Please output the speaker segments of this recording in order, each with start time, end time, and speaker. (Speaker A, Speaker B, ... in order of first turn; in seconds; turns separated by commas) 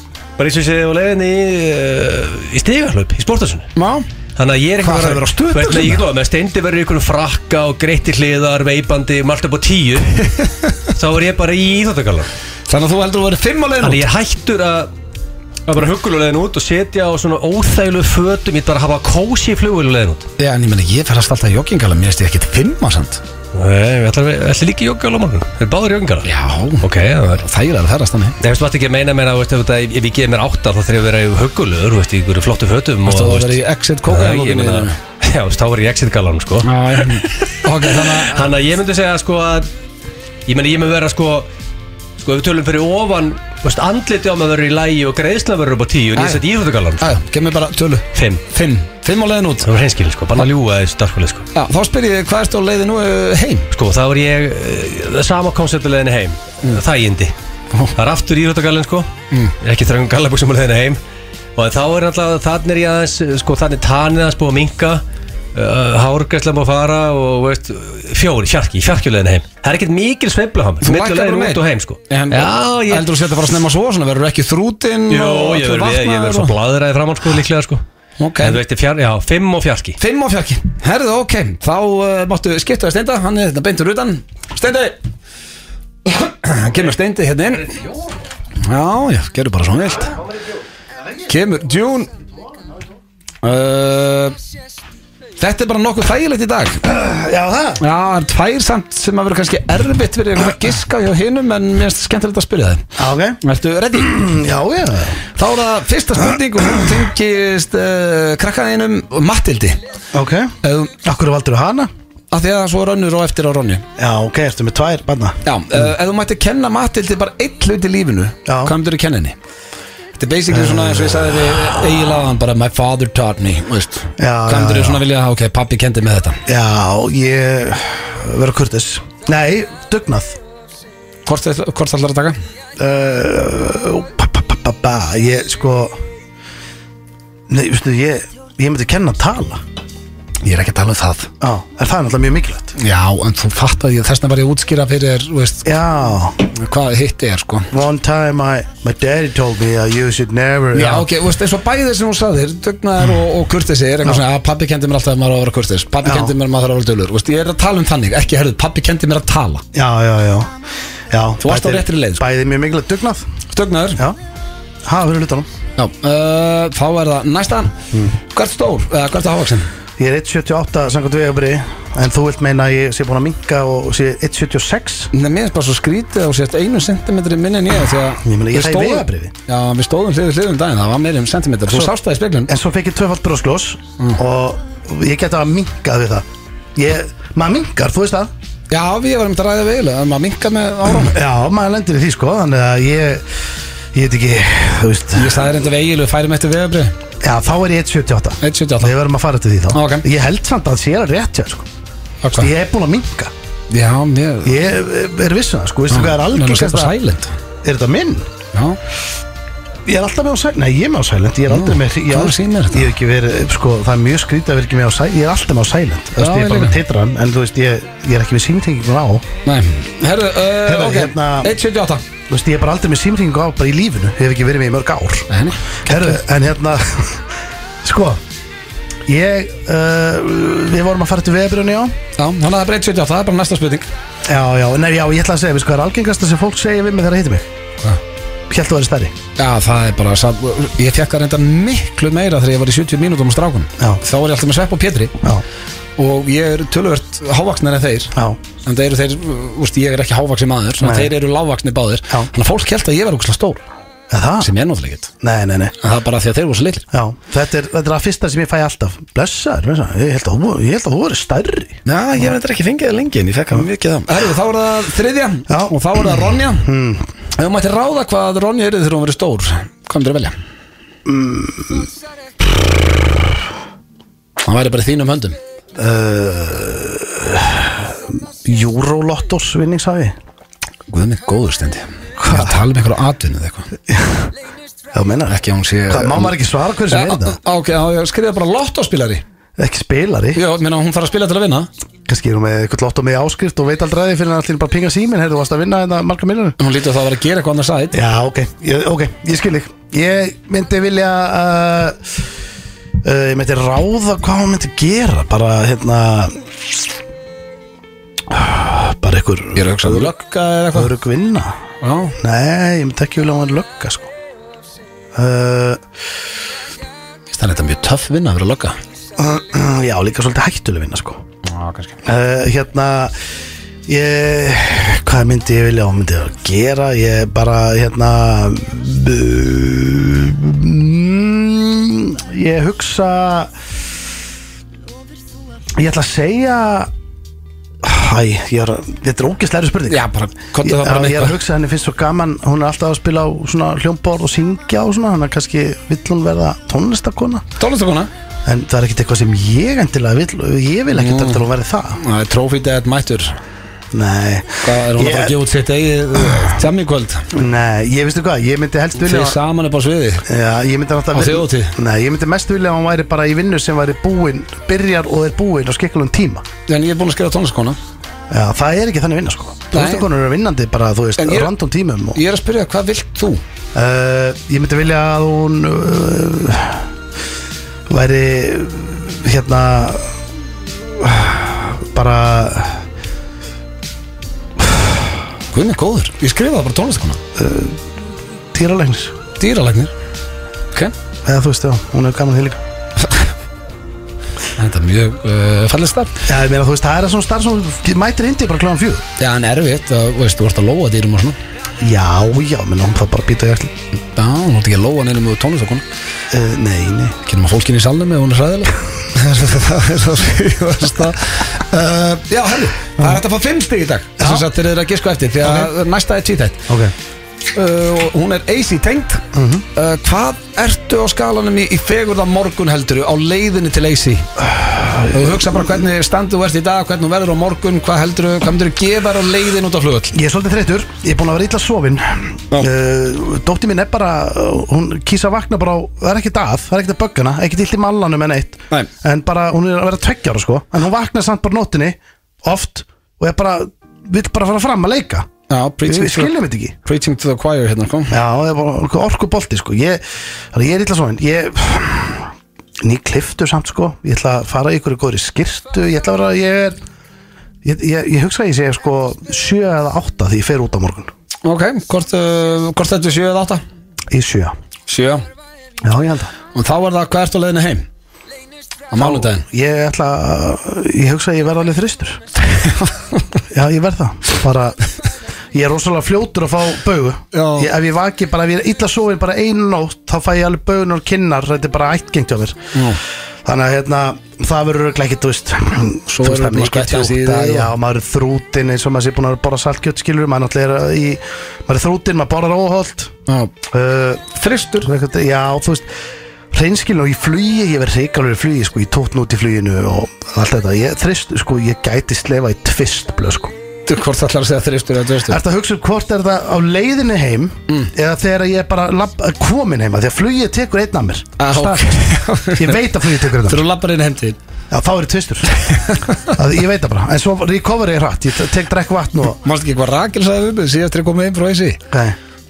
Speaker A: 0.4-3.7, Speaker B: 3.8-4.0, Speaker A: 4.3-10.3, Speaker B: 4.8-6.0, Speaker A: 10.8-12.3, Speaker B: 12.7-14.0, Speaker A: 13.8-14.9, Speaker A: 15.7-20.3, Speaker B: 20.4-23.2, Speaker A: 23.5-26.3, Speaker B: 26.2-28.4, Speaker A: 26.8-27.4, Speaker A: 28.4-39.7, Speaker B: 33.0-35.0, Speaker B: 36.6-38.5, Speaker A: 40.5-41.5, Speaker A: 42.2-47.2, Speaker B: 46.1-46.4, Speaker B: 47.0-49.7, Speaker A: 48.1-48.4, Speaker A: 49.6-51.5, Speaker B: 51.5-53.7, Speaker A: 53.7-57.3, Speaker A: 57.9-59.1, Speaker A: 59.6-61.0, Speaker A: 61.5-65.0, Speaker A: 65.5-73.1, Speaker B: 70.8-76.5, Speaker A: 75.1-77.8, Speaker B: 78.2-78.6, Speaker A: 78.4-80.0, Speaker B: 80.0-85.0, Speaker B: 86.0-87.8, Speaker B: 88.6-90.2, Speaker B: 91.3-92.1, Speaker B: 93.4-94.3, Speaker B: 95.4-96.8, Speaker C: 96.8-97.8, Speaker B: 97.8-104.2, Speaker C: 103.0-103.4, Speaker C: 104.0-105.2, Speaker B: 105.3-109.8, Speaker C: 110.1-111.9, Speaker B: 110.6-110.9, Speaker B: 112.3-113.8, Speaker C: 114.0-115.4, Speaker B: 115.4-119.4, Speaker C: 118.5-118.7, Speaker B: 120.2-126.4, Speaker C: 120.5-121.5, Speaker C: 124.2-125.0, Speaker C: 126.5-130.4, Speaker B: 131.2-132.3, Speaker C: 132.8-136.0, Speaker C: 137.5-139.6, Speaker B: 140.4-141.3, Speaker C: 141.4-142.7, Speaker B: 142.8-145.7, Speaker C: 145.6-146.4, Speaker B: 146.5-147.7, Speaker C: 147.7-151.1, Speaker B: 150.7-159.6, Speaker C: 156.0-156.3, Speaker C: 159.7-160.5, Speaker C: 161.1-163.2, Speaker B: 161.4-162.2, Speaker B: 163.5-164.0, Speaker C: 164.8-165.5, Speaker B: 165.8-169.7, Speaker C: 170.0-175.1, Speaker B: 175.1-182.5, Speaker C: 178.2-179.3, Speaker C: 182.5-188.3, Speaker B: 188.7-191.1, Speaker C: 190.9-193.2, Speaker C: 193.9-195.4, Speaker B: 195.1-196.9, Speaker C: 197.2-201.7, Speaker B: 198.4-198.9, Speaker B: 199.7-200.1, Speaker B: 202.2-202.5, Speaker C: 202.3-203.3, Speaker B: 203.7-204.6, Speaker C: 204.4-207.0, Speaker B: 205.9-207.3, Speaker C: 207.6-208.3, Speaker B: 208.5-208.8, Speaker C: 209.8-219.2, Speaker B: 211.5-212.9, Speaker B: 216.2-216.8, Speaker B: 219.4-222.0, Speaker C: 220.6-221.6, Speaker C: 222.3-225.3, Speaker B: 225.3-225.6, Speaker C: 225.8-227.3, Speaker C: 227.8-228.2, Speaker C: 229.1-231.9, Speaker B: 232.2-233.9, Speaker C: 234.2-237.5, Speaker C: 238.5-239.1, Speaker B: 239.4-245.2, Speaker B: 246.0-253.6, Speaker C: 248.1-248.4, Speaker C: 250.8-251.1, Speaker C: 254.1-254.5, Speaker B: 254.4-255.1, Speaker C: 255.2-255.7, Speaker B: 255.8-256.9, Speaker C: 256.9-261.8, Speaker B: 261.8-266.6, Speaker C: 265.5-267.0, Speaker B: 267.4-270.3, Speaker C: 271.1-271.9, Speaker B: 274.4-275.4, Speaker C: 275.8-280.1, Speaker B: 280.9-283.7, Speaker C: 282.2-282.6, Speaker C: 283.9-284.3, Speaker C: 284.9-285.4, Speaker B: 285.3-289.2, Speaker C: 285.9-287.4, Speaker C: 289.6-290.4, Speaker B: 290.3-291.7, Speaker C: 292.1-296.6, Speaker B: 296.6-298.0, Speaker C: 297.9-302.1, Speaker C: 303.0-306.5, Speaker C: 308.3-310.1, Speaker B: 309.5-310.9, Speaker C: 310.7-311.5, Speaker B: 311.8-312.1, Speaker C: 312.2-314.1, Speaker C: 315.1-315.8, Speaker B: 317.3-318.8, Speaker C: 319.2-321.2, Speaker B: 321.4-322.0, Speaker C: 322.0-323.1, Speaker C: 323.9-333.5, Speaker C: 335.8-336.9, Speaker C: 337.8-340.0, Speaker B: 339.9-341.4, Speaker C: 340.6-347.4, Speaker B: 347.6-348.1, Speaker C: 348.4-352.0, Speaker B: 350.9-353.4, Speaker C: 353.9-355.4, Speaker B: 354.6-357.3, Speaker C: 357.3-359.4, Speaker B: 359.0-360.2, Speaker C: 360.2-366.4, Speaker B: 361.1-361.7, Speaker B: 366.7-367.8, Speaker C: 368.3-372.2, Speaker B: 369.7-370.1, Speaker B: 371.2-371.5, Speaker B: 372.1-373.4, Speaker C: 373.7-376.9, Speaker C: 377.9-380.1, Speaker C: 380.8-382.8, Speaker C: 384.6-384.9, Speaker B: 385.5-387.2, Speaker C: 387.4-387.8, Speaker C: 388.5-389.1, Speaker B: 389.4-389.9, Speaker C: 391.2-392.6, Speaker B: 394.6-396.2, Speaker C: 396.2-399.0, Speaker B: 399.2-401.4, Speaker C: 401.8-403.7, Speaker B: 404.1-405.8, Speaker C: 406.3-407.2, Speaker B: 407.2-416.7, Speaker C: 414.2-414.5, Speaker C: 415.4-415.7, Speaker B: 417.5-424.3, Speaker C: 419.3-419.6, Speaker C: 424.4-425.6, Speaker B: 425.1-430.1, Speaker C: 430.1-445.3, Speaker B: 445.5-448.1, Speaker C: 445.8-446.7, Speaker C: 448.1-450.0, Speaker C: 450.5-456.8, Speaker C: 457.6-461.1, Speaker B: 461.4-463.6, Speaker C: 464.1-464.5, Speaker B: 464.9-465.2, Speaker C: 465.8-466.3, Speaker B: 466.5-467.9, Speaker B: 468.9-469.4, Speaker C: 469.0-472.2, Speaker B: 472.5-473.2, Speaker C: 473.5-474.8, Speaker C: 475.5-482.6, Speaker B: 477.3-477.7, Speaker B: 482.7-483.0, Speaker C: 483.4-493.1, Speaker B: 486.1-487.7, Speaker B: 493.3-493.5, Speaker C: 493.7-494.2, Speaker B: 494.3-494.9, Speaker C: 494.8-495.9, Speaker C: 496.5-503.5, Speaker B: 503.9-505.4, Speaker C: 505.2-513.6, Speaker B: 511.4-512.8, Speaker B: 513.4-514.4, Speaker C: 514.7-515.5, Speaker B: 515.7-516.2, Speaker C: 516.3-519.4, Speaker B: 519.4-521.8, Speaker C: 521.9-522.1